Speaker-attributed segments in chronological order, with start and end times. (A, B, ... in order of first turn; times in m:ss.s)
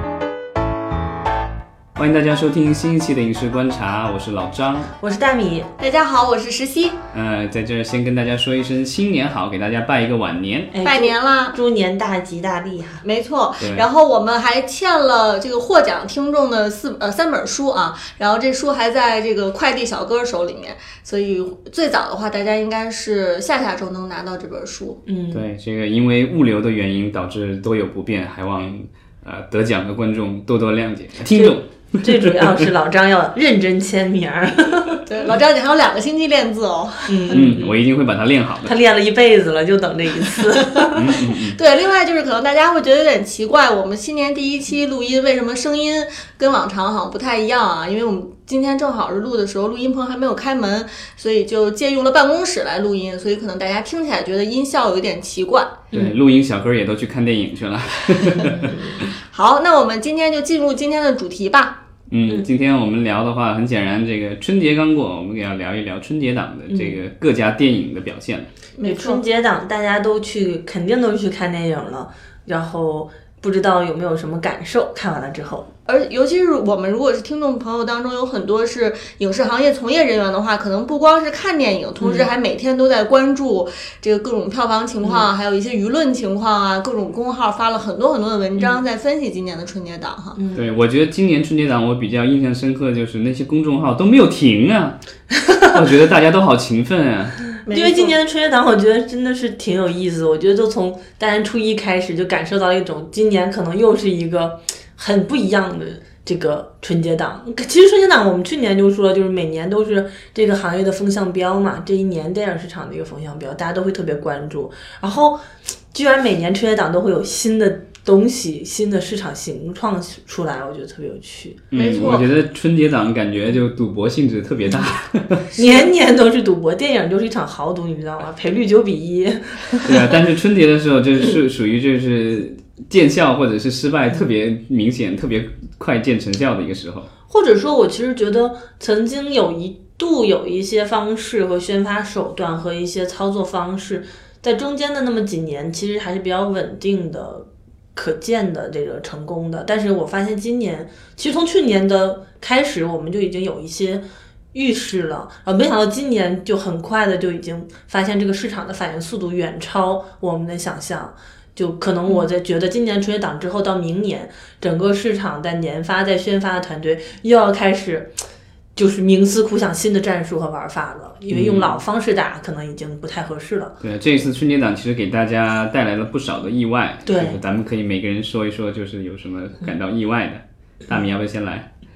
0:02.0-0:04.9 A
0:05.0-0:05.7 B
0:05.8-0:07.0 C
0:07.1-0:10.7 A
0:10.7-0:13.0 B
0:10.8-0:11.6 C
0:13.0-0:25.0 C
0:13.6-0:13.8 A
0:25.0-0:25.4 B
0:25.3-0:32.6 A
0:31.3-0:35.0 B
0:35.1-0:37.3 C
0:37.1-0:37.8 B
0:37.3-0:38.7 A
0:38.6-0:41.2 B
0:40.9-0:41.6 A
0:41.3-0:55.8 C
0:55.9-0:56.2 B
0:55.9-0:59.0 A
0:58.4-0:59.0 B
0:59.2-1:01.8 C
1:02.1-1:08.5 A
1:06.7-1:07.0 B
1:08.8-1:09.2 C
1:08.8-1:15.7 B
1:15.8-1:30.4 C
1:22.0-1:22.3 B
1:25.0-1:25.3 B
1:30.4-1:30.6 B
1:30.5-1:35.0 A
1:35.6-1:37.4 A
1:37.6-1:38.2 C
1:37.7-2:01.7 B
2:01.7-2:05.5 A
2:01.7-2:02.3 C
2:05.5-2:10.2 B
2:09.8-2:17.1 A
2:17.3-2:48.2 B
2:48.8-2:53.8 B
2:51.3-2:51.8 A
2:53.8-3:01.7 A
2:57.0-2:57.4 B